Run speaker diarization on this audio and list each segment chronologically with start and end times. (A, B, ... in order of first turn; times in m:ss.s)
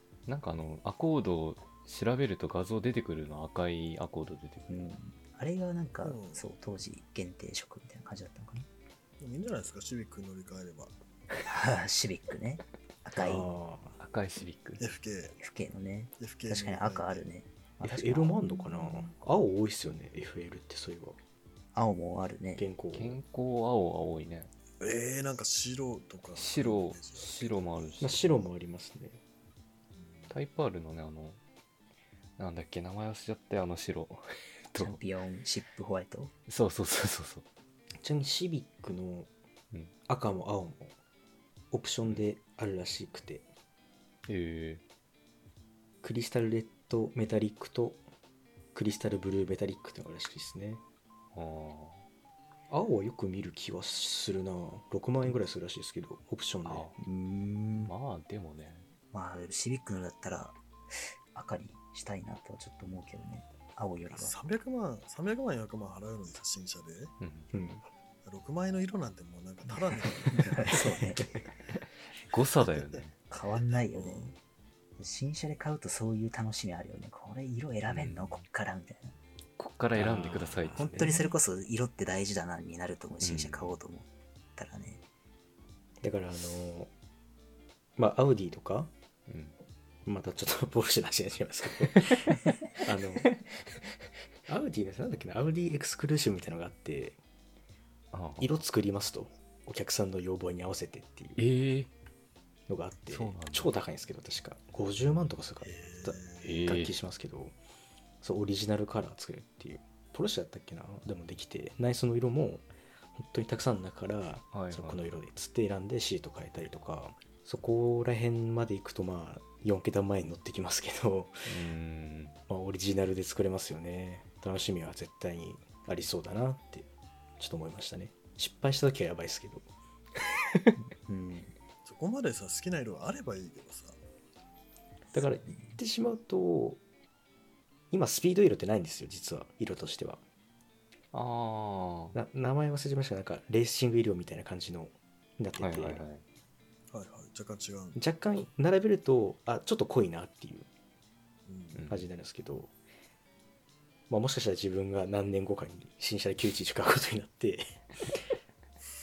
0:00.3-0:04.9 A
0:04.7-0:08.7 B
0:06.0-0:06.4 C
0:09.2-0:10.9 C
0:11.4-0:13.5 B
0:13.2-0:14.0 D
0:14.0-0:14.9 A
0:14.8-0:15.4 C
0:15.4-0:19.1 B
0:16.2-0:17.2 C
0:17.8-0:21.2 D
0:21.7-0:22.6 B
0:22.6-0:23.2 D
0:22.9-0:24.5 A
0:24.8-0:28.4 C
0:26.4-0:28.2 A
0:28.0-0:29.2 D
0:29.9-0:30.3 C
0:30.3-0:31.4 A
0:32.4-0:35.0 A
0:34.7-0:36.3 B
0:36.5-0:37.4 A
0:38.0-0:39.3 D
0:40.0-0:40.9 D
0:41.7-0:43.4 D
0:44.3-0:44.8 A
0:46.0-0:48.0 D
0:48.7-0:50.8 D
0:51.3-0:52.0 A
0:52.7-0:57.9 D
0:56.6-0:57.0 A
0:57.8-0:58.9 A
0:59.1-1:04.3 B
1:04.1-1:07.1 C
1:07.2-1:07.5 A
1:07.5-1:07.8 D
1:08.2-1:11.4 C
1:10.5-1:11.2 B
1:12.2-1:13.2 A
1:13.3-1:14.3 B
1:13.9-1:14.3 C
1:15.0-1:19.2 B
1:17.9-1:18.4 A
1:19.6-1:21.2 A
1:19.9-1:21.2 D
1:20.8-1:25.0 B
1:23.2-1:23.8 A
1:26.0-1:26.9 D
1:28.0-1:28.9 D
1:29.3-1:29.6 A
1:30.0-1:33.3 D
1:34.5-1:37.2 D
1:38.1-1:38.5 A
1:38.4-1:41.4 D
1:41.4-1:41.9 A
1:42.7-1:47.6 D
1:43.1-1:43.7 A
1:45.6-1:46.6 C
1:46.4-1:46.9 A
1:48.2-2:01.5 D
1:54.5-1:55.1 A
2:01.4-2:02.4 A
2:02.5-2:09.6 D
2:11.0-2:11.5 B
2:11.8-2:14.0 C
2:15.1-2:16.8 D
2:15.2-2:15.8 B
2:17.9-2:20.2 D
2:21.1-2:22.1 A
2:22.1-2:26.0 D
2:25.6-2:26.2 A
2:26.9-2:28.0 C
2:28.0-2:30.7 D
2:31.5-2:31.8 C
2:31.7-2:32.1 A
2:31.9-2:32.7 D
2:34.1-2:38.2 D